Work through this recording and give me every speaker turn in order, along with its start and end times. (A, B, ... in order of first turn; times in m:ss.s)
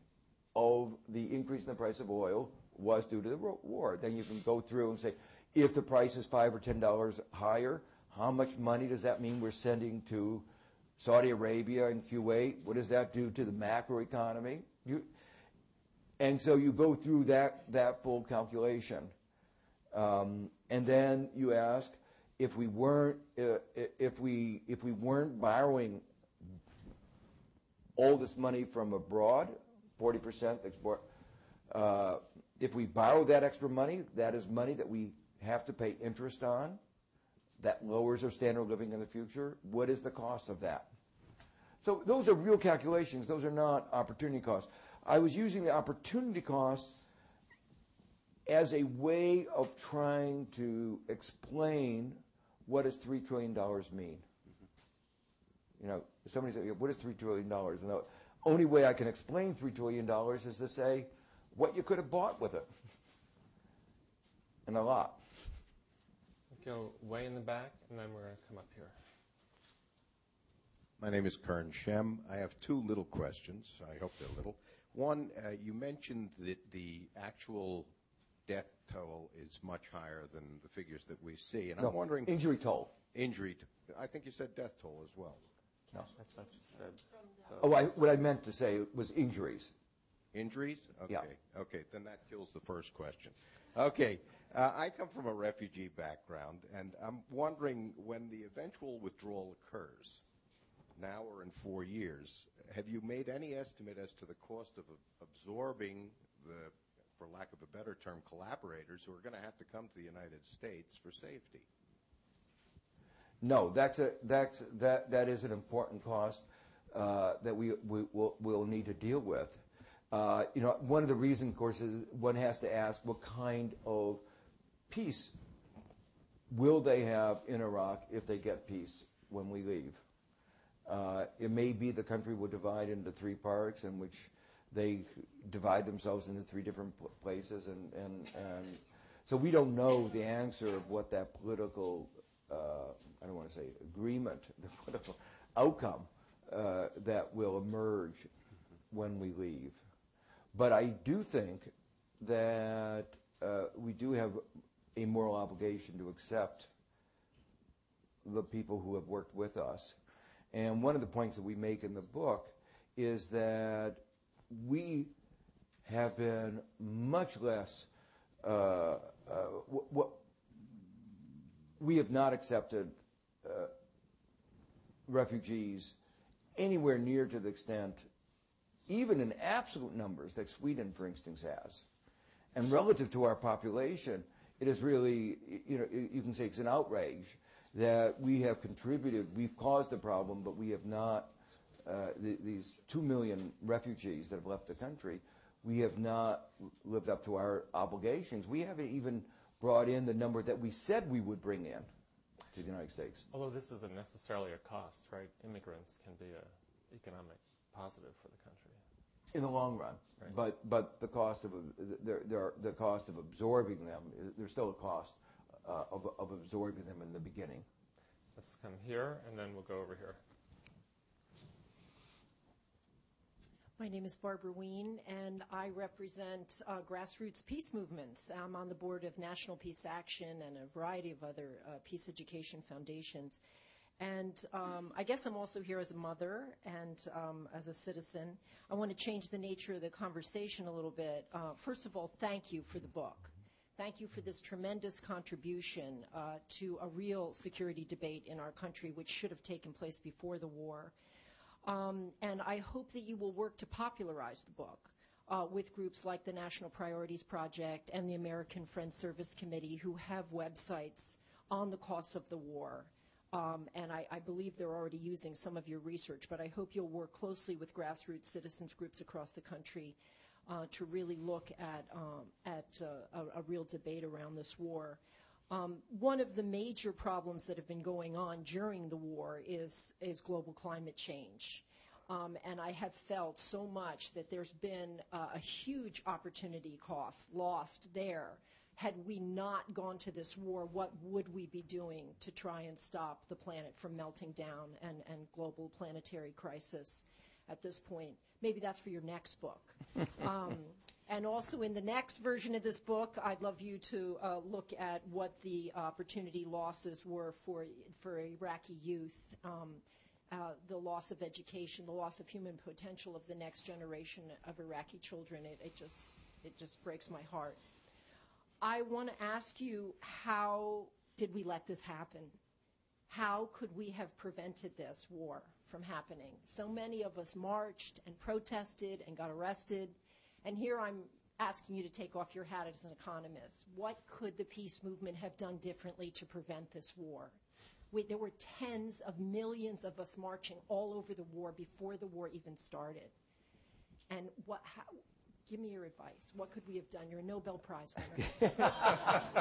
0:00.6-0:15.1 A
0:16.2-0:19.1 A
0:19.9-0:26.0 A
0:28.0-0:31.1 A
0:31.7-0:36.8 A
0:37.6-0:40.9 A
0:41.8-0:47.0 A
0:48.5-0:54.2 A
0:55.8-1:02.7 A
1:04.7-1:05.2 A
1:06.5-1:09.0 B
1:11.0-1:17.9 C
1:18.5-1:22.4 C
1:21.8-1:22.9 A
1:23.1-1:25.4 C
1:26.1-1:27.7 B
1:27.6-1:29.7 A
1:30.3-1:40.2 C
1:41.0-1:51.7 C
1:53.4-2:04.2 A
2:04.9-2:05.4 A
2:06.5-2:10.0 A
2:10.9-2:28.3 A
2:28.9-2:29.8 A
2:30.5-2:34.4 A
2:35.0-2:36.7 A
2:38.2-2:40.0 A
2:40.5-2:45.1 A
2:45.8-2:47.9 A
2:48.4-2:50.2 A
2:51.8-2:53.7 A
2:55.1-2:56.0 A
2:56.6-2:58.1 A
2:58.9-3:01.8 A
3:02.5-3:21.9 A
3:22.5-3:23.3 A
3:23.3-3:28.8 B
3:29.3-3:37.7 A
3:38.4-3:40.2 B
3:43.8-3:53.4 D
3:54.0-4:10.9 D
4:11.6-5:17.6 D
5:18.6-5:22.4 D
5:23.1-5:37.4 D
5:37.9-5:43.1 D
5:44.1-5:48.9 D
5:48.6-5:49.1 A